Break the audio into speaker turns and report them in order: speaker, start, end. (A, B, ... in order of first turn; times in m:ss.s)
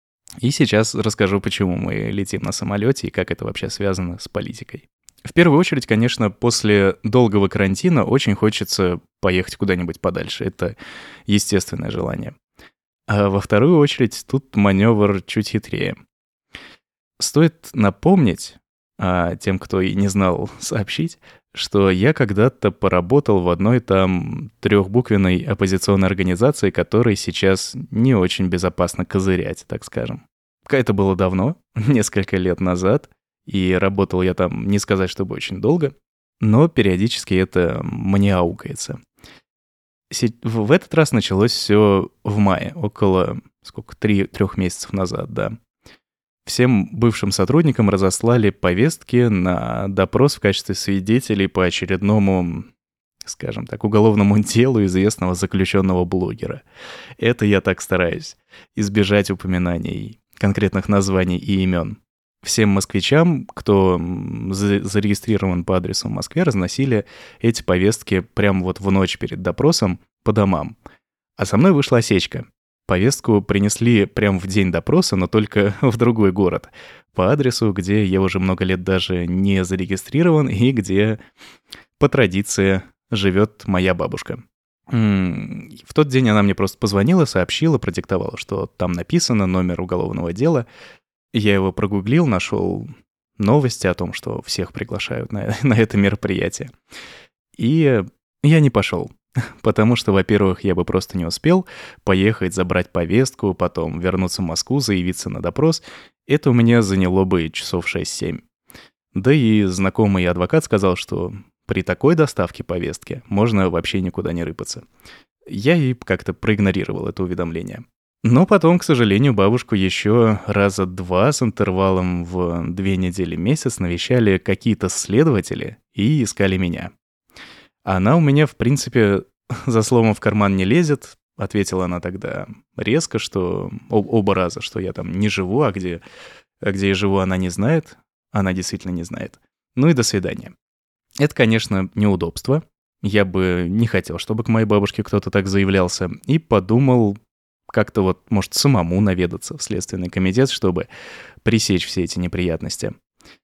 0:00.4-0:10.7 A
0:11.3-0:12.4 A
0:13.1-0:16.0 A
0:17.2-0:39.0 A
0:40.1-0:45.6 A
0:46.4-0:52.7 A
0:53.2-0:56.6 A
0:57.2-1:10.7 A
1:11.4-1:21.2 A
1:22.0-1:30.7 A
1:31.3-1:36.7 A
1:37.6-1:48.4 A
1:49.1-1:54.8 A
1:55.5-2:06.9 A
2:07.8-2:16.0 A
2:16.6-2:20.5 A
2:21.2-2:27.2 A
2:27.7-2:30.9 A
2:31.4-2:32.9 A